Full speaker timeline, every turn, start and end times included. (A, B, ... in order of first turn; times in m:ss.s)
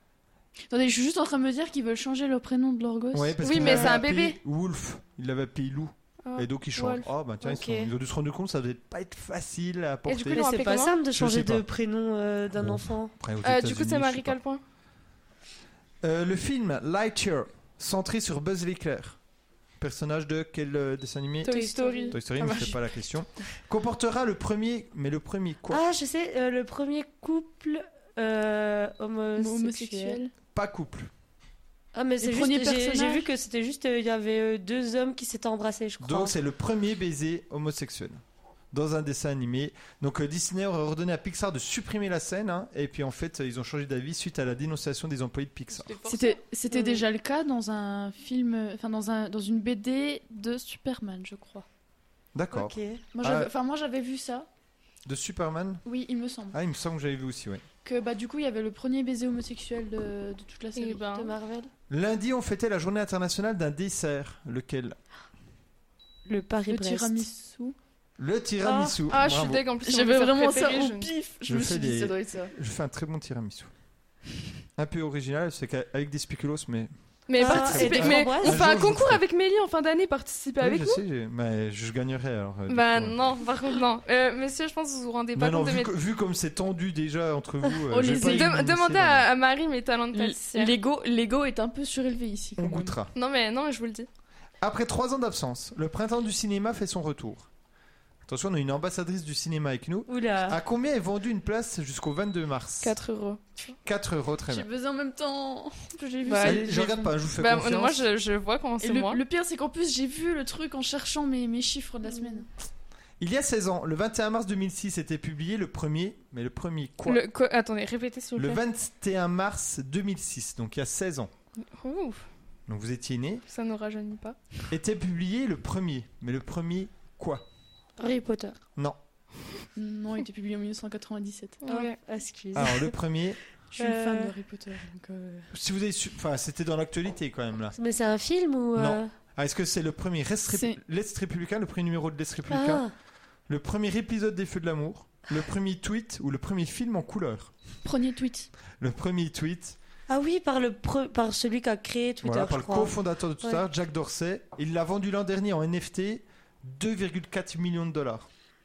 0:00.7-0:03.9 A
0:03.1-0:10.4 B
0:03.4-0:04.4 C
0:06.2-0:07.1 C
0:07.4-0:07.9 D
0:10.0-0:10.9 C
0:10.3-0:13.1 D
0:11.1-0:11.6 B
0:12.6-0:14.4 B
0:13.4-0:14.6 C
0:16.0-0:19.2 B
0:19.8-0:21.6 B
0:21.4-0:22.7 D
0:21.5-0:22.7 C
0:22.1-0:25.8 B
0:25.7-0:30.2 D
0:29.4-0:30.3 A
0:30.5-0:31.1 B
0:31.9-0:36.3 D
0:32.2-0:33.3 A
0:36.0-0:38.2 B
0:38.7-0:45.9 B
0:45.7-0:46.4 C
0:46.0-0:51.6 A
0:46.7-0:47.0 D
0:52.3-0:53.5 B
0:52.5-0:53.0 D
0:53.1-0:54.5 A
0:55.0-0:55.8 B
0:55.8-0:56.6 A
0:56.5-0:57.6 B
0:57.8-1:01.3 A
1:00.7-1:01.3 C
1:01.2-1:01.7 D
1:01.9-1:05.0 B
1:06.2-1:07.2 D
1:06.7-1:07.8 A
1:08.2-1:09.6 B
1:08.6-1:08.9 D
1:09.1-1:11.1 C
1:09.8-1:12.5 A
1:11.5-1:13.7 B
1:14.8-1:16.9 B
1:17.3-1:21.0 C
1:17.4-1:18.6 D
1:17.4-1:19.2 B
1:20.6-1:23.2 B
1:22.7-1:25.9 C
1:25.3-1:29.2 B
1:27.9-1:28.6 A
1:28.2-1:30.7 C
1:30.1-1:33.0 A
1:32.6-1:33.1 B
1:33.1-1:34.1 C
1:34.6-1:37.5 B
1:38.2-1:43.0 B
1:40.1-1:40.6 D
1:42.8-1:43.5 C
1:43.8-1:44.7 B
1:44.5-1:47.0 A
1:46.2-1:49.2 C
1:46.3-1:46.6 D
1:46.4-1:48.1 B
1:48.8-1:52.5 A
1:53.2-1:57.2 B
1:57.0-1:58.6 C
1:58.4-2:01.3 B
2:01.6-2:02.2 C
2:02.7-2:03.4 B
2:03.5-2:04.4 C
2:04.7-2:07.4 B
2:08.0-2:08.6 D
2:09.8-2:11.6 A
2:11.6-2:12.0 C
2:11.7-2:13.0 D
2:12.5-2:13.4 B
2:13.7-2:15.5 A
2:13.8-2:14.3 D
2:15.5-2:17.7 B
2:17.7-2:19.1 D
2:18.7-2:22.8 B
2:20.5-2:20.8 A
2:22.5-2:22.9 D
2:23.5-2:27.5 B
2:27.8-2:28.5 A
2:28.8-2:29.8 B
2:30.1-2:33.6 D
2:32.2-2:38.3 B